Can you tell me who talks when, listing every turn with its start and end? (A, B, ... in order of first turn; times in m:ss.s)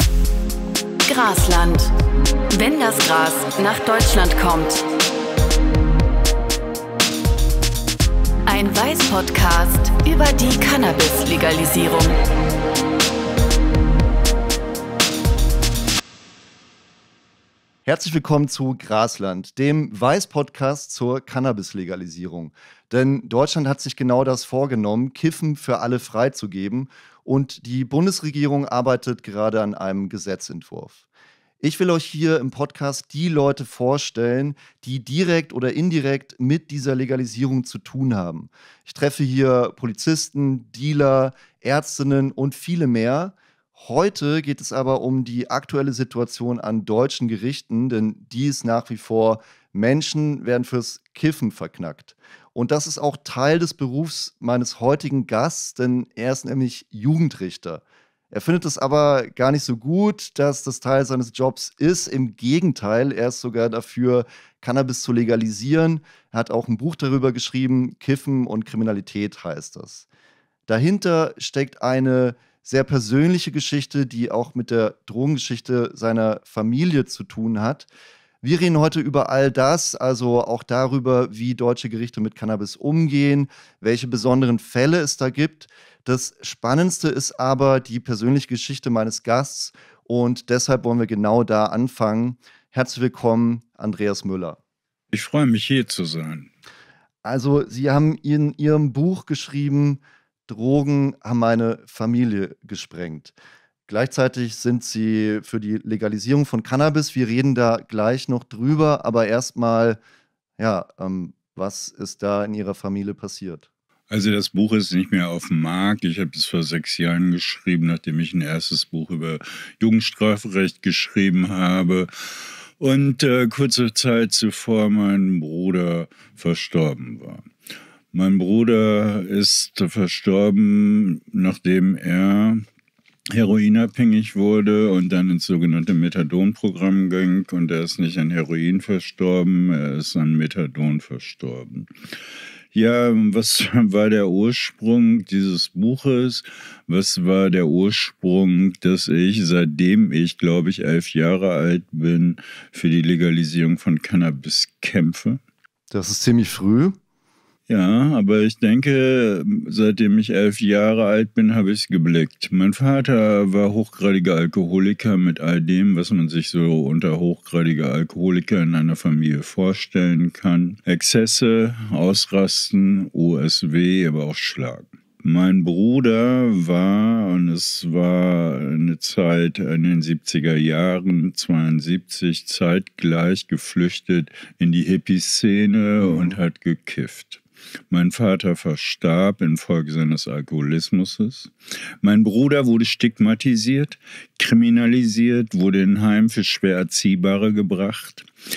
0:01.1-0:01.9 A
0:02.5-0:04.9 A
0:08.5-0:12.2 A
0:17.9-0:31.0 B
0:31.6-1:10.0 B
1:10.7-1:17.9 B
1:18.4-1:34.6 B
1:35.1-1:36.5 C
1:37.2-1:43.3 B
1:43.9-1:50.0 B
1:50.6-1:53.7 B
1:54.1-2:07.5 C
2:08.1-2:12.6 C
2:13.3-2:21.9 C
2:22.7-2:35.4 C
2:35.9-2:37.0 B
2:37.7-3:18.3 C
3:06.0-3:06.4 B